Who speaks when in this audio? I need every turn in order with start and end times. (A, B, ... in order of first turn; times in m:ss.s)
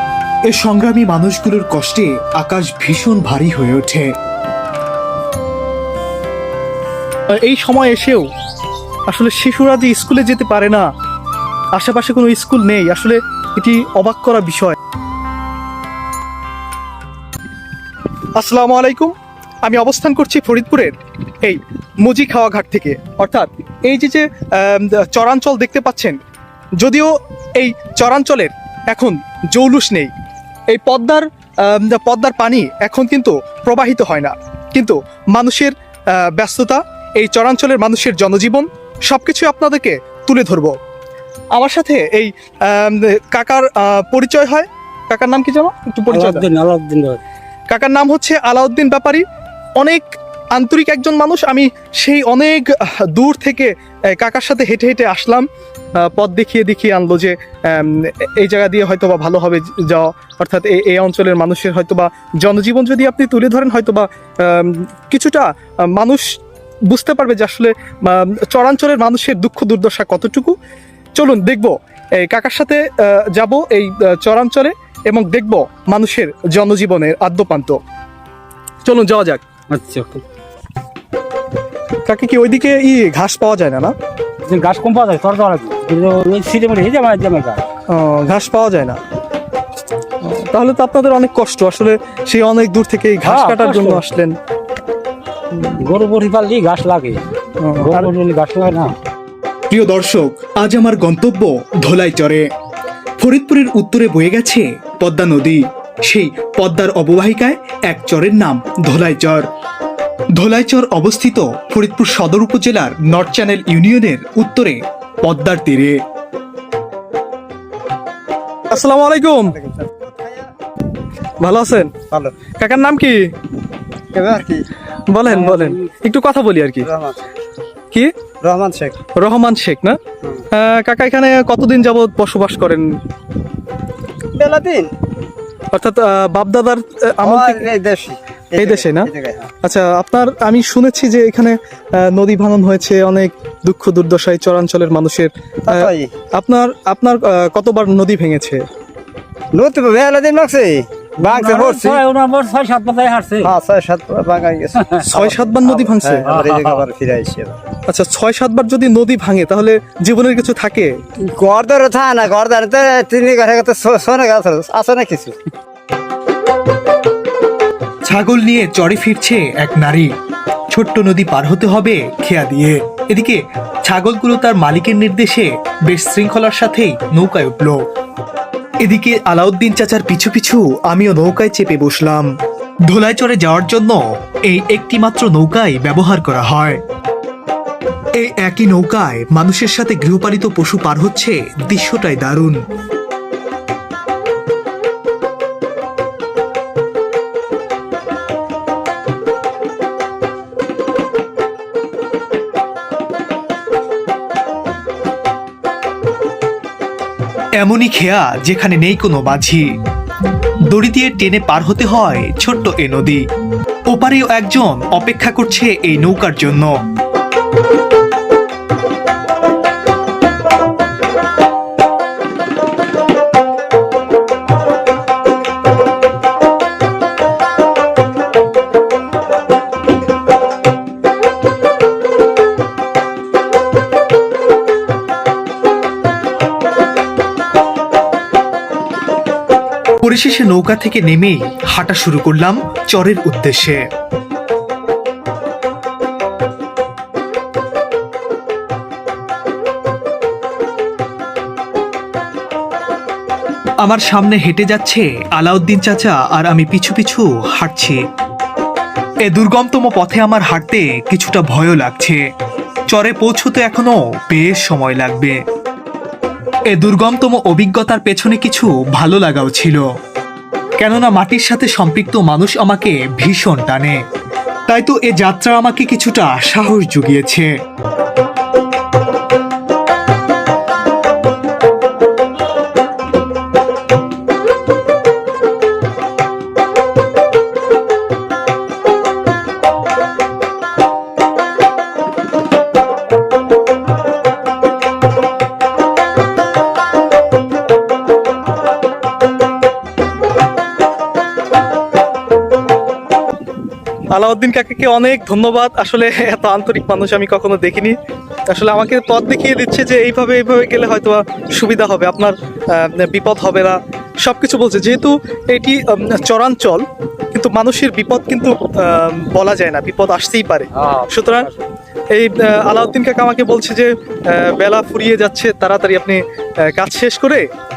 0:00.5-0:04.1 A
0:07.4-0:08.2 B
0:09.1-0:10.9 B
0:11.7-0:14.8 B
0:18.4-0:26.2 B
0:26.8-0:30.1 B
0:30.7-0:40.8 B
0:41.5-0:46.4 B
0:46.1-0:47.2 C
0:47.7-0:49.2 B
0:49.8-0:55.5 B
0:56.0-1:10.6 B
1:11.2-1:17.8 B
1:18.8-1:19.4 B
1:19.7-1:20.2 C
1:22.0-1:23.9 B
1:24.5-1:27.6 C
1:27.9-1:29.0 B
1:30.2-1:34.3 B
1:33.2-1:34.0 C
1:35.7-1:37.2 C
1:37.6-1:38.1 B
1:37.8-1:38.9 C
1:39.7-1:42.5 A
1:43.2-1:49.4 A
1:50.4-1:56.0 A
1:58.7-1:59.5 B
1:59.5-2:00.5 D
2:01.4-2:01.9 B
2:02.1-2:02.4 D
2:02.6-2:03.2 B
2:04.1-2:04.6 D
2:05.1-2:06.9 B
2:05.3-2:05.6 C
2:06.8-2:07.3 D
2:08.4-2:09.0 D
2:09.2-2:10.0 B
2:10.5-2:12.9 B
2:14.3-2:14.9 D
2:15.7-2:17.6 B
2:17.2-2:19.5 D
2:18.6-2:19.1 B
2:19.6-2:28.6 B
2:25.7-2:26.1 D
2:29.5-2:32.0 D
2:31.2-2:33.5 C
2:33.4-2:37.5 D
2:34.8-2:35.0 C
2:35.0-2:36.2 B
2:36.2-2:36.8 C
2:37.9-2:41.0 B
2:41.2-2:45.4 D
2:48.0-2:50.1 A
2:50.7-2:57.8 A
2:58.8-3:02.3 A
3:02.9-3:06.8 A
3:08.2-3:12.6 A
3:27.6-3:29.6 A
3:30.7-3:33.2 A
3:33.8-3:36.7 A
4:00.0-4:03.8 A
4:13.8-4:18.0 A
4:19.2-4:22.2 A
4:22.9-4:25.4 A
4:26.7-4:29.8 A
4:30.8-4:34.0 A
4:34.7-4:37.5 A
5:04.1-5:08.0 B
5:08.5-5:21.5 B
5:20.7-5:21.6 C
5:22.1-5:27.4 B